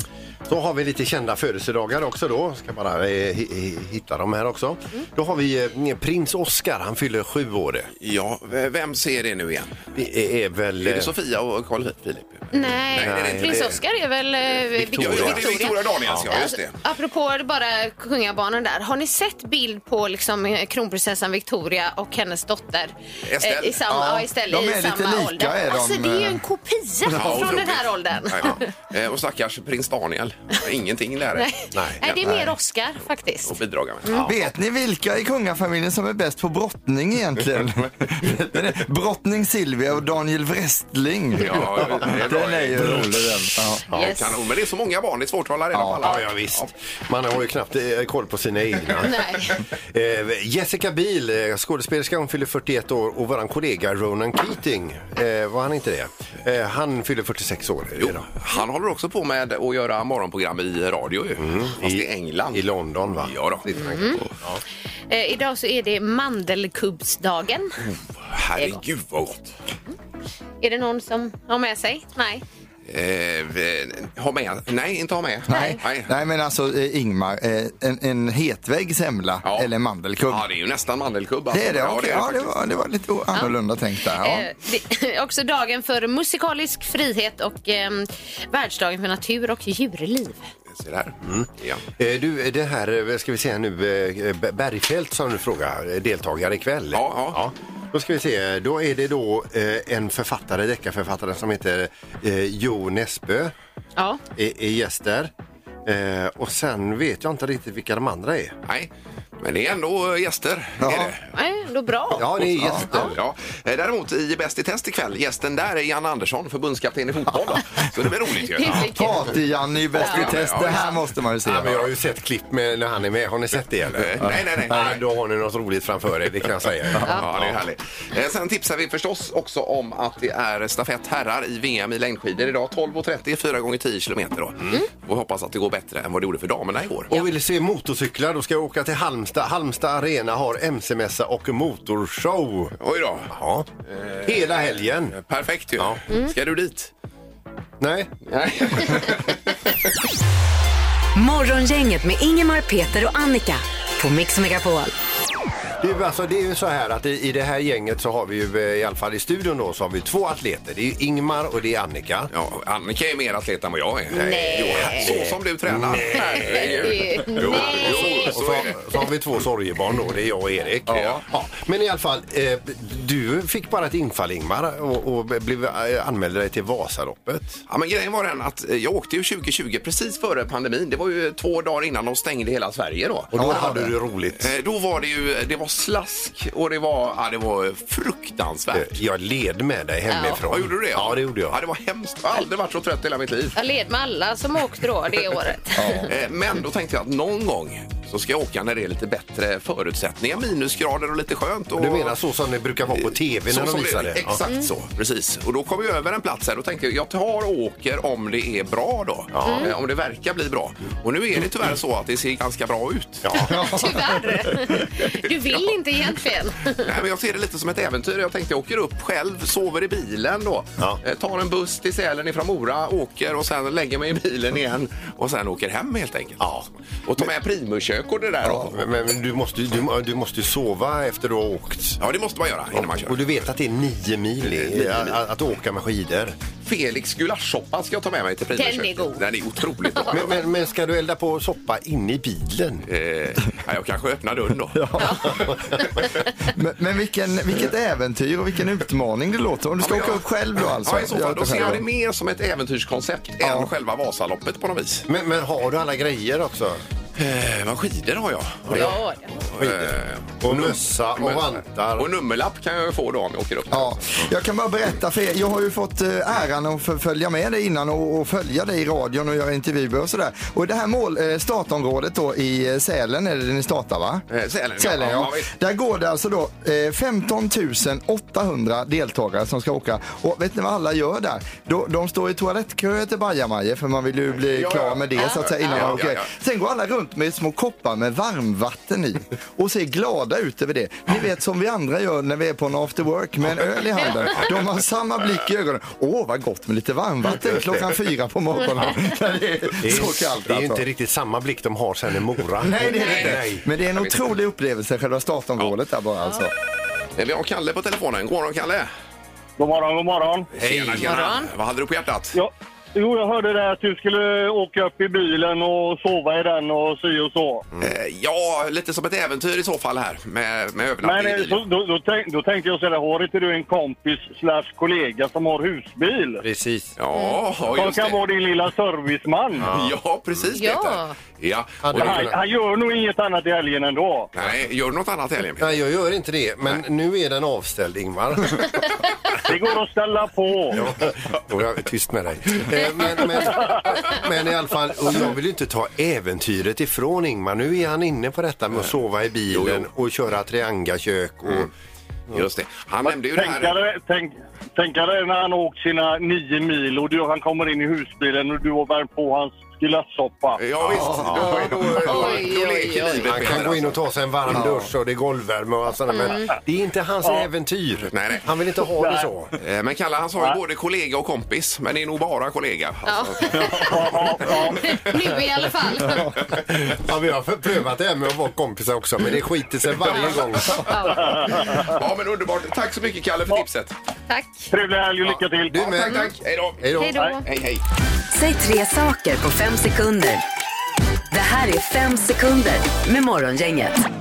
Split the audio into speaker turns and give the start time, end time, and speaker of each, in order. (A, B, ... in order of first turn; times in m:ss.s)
0:00.5-0:07.9 A
0:08.0-0:09.9 B
0:09.9-0:11.1 A
0:10.8-0:13.8 B
0:12.5-0:28.7 C
0:13.0-0:13.8 A
0:14.8-0:16.3 A
0:14.9-0:16.8 B
0:23.2-0:23.8 B
0:23.9-0:26.4 D
0:27.1-0:31.5 B
0:31.4-0:34.3 C
0:31.7-0:32.5 A
0:33.5-0:34.2 B
0:34.2-0:43.8 D
0:41.4-0:43.2 B
0:43.9-0:44.4 C
0:44.0-0:46.7 B
0:45.7-0:46.0 D
0:46.0-0:49.2 A
0:49.0-0:49.6 C
0:49.8-0:58.3 A
0:58.0-1:02.6 B
1:01.4-1:04.6 A
1:03.2-1:04.3 B
1:03.8-1:04.2 C
1:05.1-1:07.7 C
1:08.3-1:09.5 B
1:10.6-1:12.4 C
1:12.9-1:16.1 B
1:15.5-1:20.4 D
1:15.5-1:15.8 C
1:19.4-1:19.7 B
1:20.2-1:22.5 B
1:21.5-1:24.4 D
1:24.1-1:30.5 C
1:30.7-1:31.8 B
1:31.2-1:43.5 A
1:36.9-1:37.4 B
1:44.4-1:45.3 A
1:45.8-1:48.5 A
1:48.6-1:51.3 B
1:50.8-1:51.1 D
1:51.3-1:53.1 C
1:52.1-1:53.2 A
1:52.9-1:58.8 B
1:58.5-1:59.4 C
1:58.8-2:01.8 D
2:00.0-2:00.8 B
2:00.0-2:01.0 C
2:01.4-2:07.3 A
2:03.9-2:05.0 B
2:06.9-2:17.1 B
2:17.1-2:22.7 A
2:22.8-2:23.3 B
2:23.3-2:23.6 A
2:23.9-2:26.9 B
2:24.2-2:25.2 A
2:27.8-2:28.1 A
2:28.3-2:29.6 B
2:31.1-2:34.9 E
2:35.8-2:42.3 A
2:42.3-2:48.8 B
2:44.1-2:45.3 C
2:44.9-2:46.7 A
2:46.1-2:48.3 C
2:47.4-2:57.6 A
2:50.9-2:51.2 B
2:57.7-3:03.3 B
3:03.3-3:04.5 A
3:03.3-3:03.9 D
3:04.4-3:08.9 B
3:08.7-3:11.6 A
3:10.1-3:10.4 C
3:10.5-3:13.6 B
3:13.6-3:16.1 C
3:15.8-3:16.1 D
3:16.1-3:22.2 B
3:21.7-3:24.4 A
3:22.9-3:33.3 B
3:29.3-3:29.7 A
3:29.4-3:29.7 C
3:33.2-3:33.6 A
3:33.4-3:36.9 C
3:33.4-3:34.8 D
3:35.3-3:35.7 B
3:36.8-3:46.4 B
3:46.4-3:46.7 A
3:47.0-3:48.8 B
3:48.5-3:52.0 A
3:52.0-3:53.4 B
3:52.7-3:56.4 A
3:54.4-3:55.2 B
3:56.6-4:00.4 B
3:58.6-3:59.3 C
3:59.8-4:00.2 C
4:00.1-4:02.8 A
4:02.8-4:05.0 B
4:04.7-4:05.3 D
4:05.0-4:05.4 C
4:06.5-4:11.8 D
4:09.8-4:15.0 B
4:13.4-4:13.7 D
4:15.1-4:16.8 A
4:17.2-4:19.0 B
4:18.7-4:18.9 A
4:18.7-4:19.3 C
4:19.5-4:24.1 B
4:19.6-4:22.1 A
4:23.7-4:34.2 D
4:34.3-4:35.5 B
4:34.8-5:00.8 D
4:44.5-4:46.3 B
4:45.2-4:46.0 C
4:59.8-5:03.6 A
5:02.6-5:06.5 D
5:03.0-5:03.4 B
5:04.0-5:04.2 B
5:07.2-5:08.9 B
5:09.6-5:10.5 F
5:10.5-5:11.2 A
5:10.5-5:12.4 B
5:11.0-5:11.5 C
5:12.3-5:17.6 F
5:17.8-5:21.6 B
5:21.0-5:26.4 F
5:26.4-5:26.9 A
5:27.0-5:28.3 B
5:27.1-5:27.4 C
5:27.8-5:29.6 F
5:29.6-5:30.0 A
5:29.6-5:32.4 B
5:30.5-5:31.1 C
5:31.8-5:32.4 A
5:32.1-5:34.3 F
5:34.3-5:35.8 B
5:35.6-5:38.7 A
5:39.5-5:40.8 F
5:40.7-5:51.7 A
5:49.5-5:49.8 B
5:52.3-5:53.8 B
5:53.2-6:00.6 F
6:00.6-6:04.0 B
6:00.8-6:02.4 A
6:00.9-6:02.0 D
6:01.4-6:03.6 C
6:03.0-6:09.5 A
6:04.5-6:04.8 D
6:06.1-6:06.5 C
6:08.1-6:08.4 B
6:09.6-6:14.6 B
6:13.0-6:16.4 C
6:13.9-6:14.7 F
6:16.8-6:20.8 A
6:20.1-6:21.8 C
6:21.8-6:23.9 B
6:24.3-6:24.7 C
6:24.7-6:25.8 F
6:25.7-6:27.2 A
6:25.9-6:26.8 B
6:26.0-6:26.3 C
6:27.0-6:27.4 C
6:27.4-6:27.8 B
6:28.3-6:30.4 E
6:31.3-6:34.0 E